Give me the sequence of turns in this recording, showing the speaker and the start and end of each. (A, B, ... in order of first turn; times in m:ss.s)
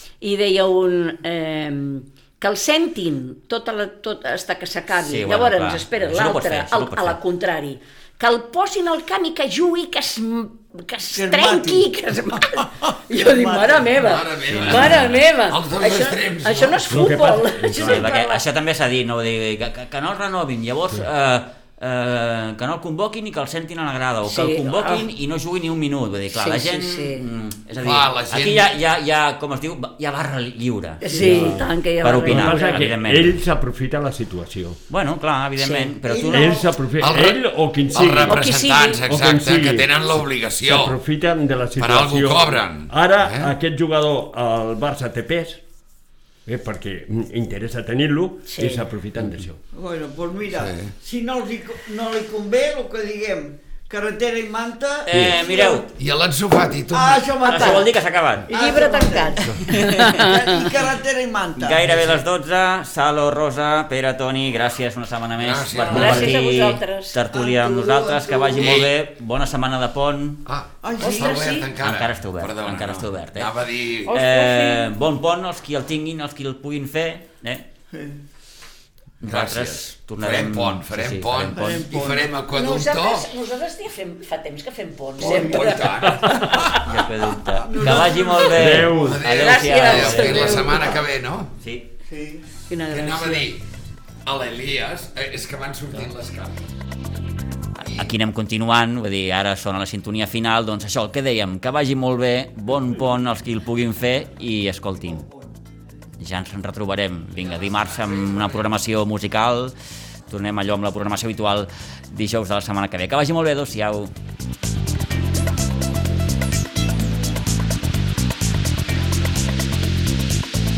0:00.2-0:18.4 A
0:05.0-0:07.2 B
0:11.1-0:12.0 C
0:13.1-0:13.9 C
0:14.0-0:16.8 D
0:14.6-0:15.2 B
0:16.9-0:18.1 E
0:17.8-0:33.4 B
0:24.2-0:25.1 A
0:26.3-0:27.2 A
0:27.8-0:28.7 D
0:31.0-0:32.9 A
0:31.1-0:31.7 E
0:32.2-0:34.8 E
0:34.9-0:36.6 B
0:35.6-0:35.9 A
0:36.0-0:36.7 C
0:36.2-0:38.5 E
0:37.0-0:41.0 D
0:38.2-0:39.0 A
0:39.1-0:40.1 E
0:40.6-0:45.6 E
0:41.8-0:43.5 D
0:46.5-0:49.6 E
0:48.5-0:48.8 A
0:49.7-0:55.9 C
0:50.5-0:50.9 D
0:55.1-0:55.9 B
0:55.9-0:57.4 D
0:56.9-0:57.9 C
0:57.4-0:58.5 B
0:58.5-1:00.7 A
0:58.5-1:01.9 C
1:01.6-1:10.4 B
1:05.4-1:06.4 D
1:05.8-1:07.2 A
1:07.3-1:08.6 C
1:08.5-1:08.9 D
1:10.4-1:14.1 D
1:10.8-1:11.6 C
1:11.0-1:11.7 A
1:11.8-1:13.5 B
1:14.1-1:14.9 A
1:14.1-1:17.7 B
1:17.9-1:18.2 C
1:19.2-1:21.9 B
1:19.2-1:23.3 D
1:21.6-1:22.3 C
1:22.5-1:26.8 A
1:25.2-1:25.7 C
1:25.3-1:26.9 D
1:26.0-1:26.7 E
1:26.8-1:30.9 B
1:27.5-1:28.9 C
1:28.5-1:29.2 E
1:28.9-1:31.5 D
1:29.3-1:30.9 A
1:31.6-1:31.9 B
1:32.1-1:32.5 C
1:32.7-1:33.5 A
1:32.9-1:33.6 D
1:34.2-1:36.7 D
1:37.8-1:38.1 D
1:37.9-1:45.3 B
1:46.2-1:49.7 B
1:50.3-1:54.1 B